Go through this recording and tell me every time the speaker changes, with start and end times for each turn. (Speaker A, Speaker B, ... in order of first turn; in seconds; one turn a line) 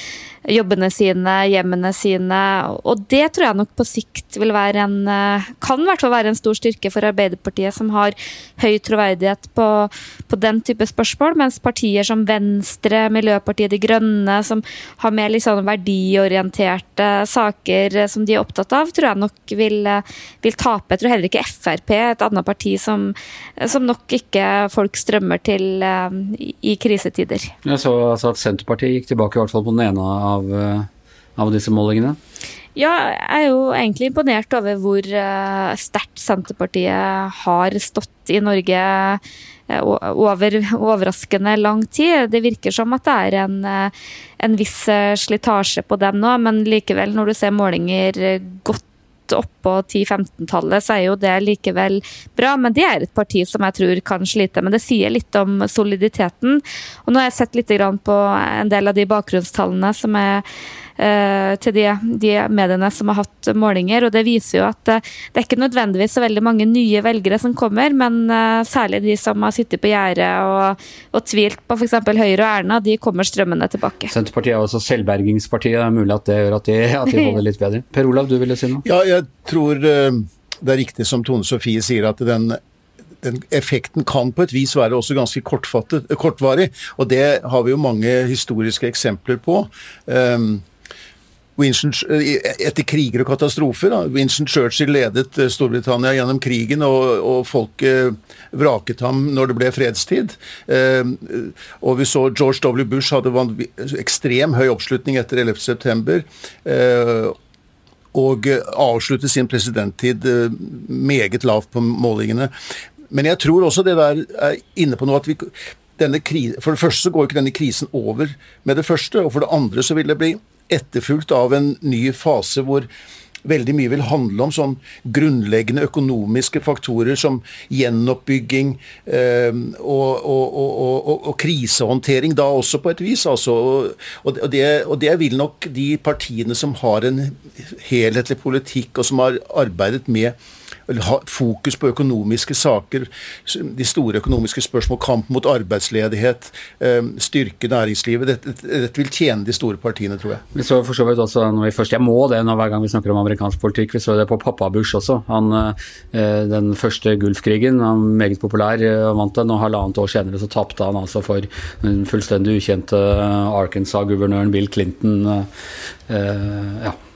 Speaker A: 0.5-27.5
Speaker B: 27.6-32.2
Speaker A: 32.8-60.4
Speaker A: 61.0-74.1
Speaker B: 74.1-78.8
Speaker A: 77.1-77.4
Speaker C: 78.8-82.6
Speaker C: 83.2-90.6
Speaker C: 91.6-107.3
Speaker C: 108.1-112.5
Speaker C: 113.1-122.9
Speaker C: 123.4-140.3
Speaker C: 140.9-150.4
Speaker B: 150.5-165.5
Speaker B: 166.1-166.9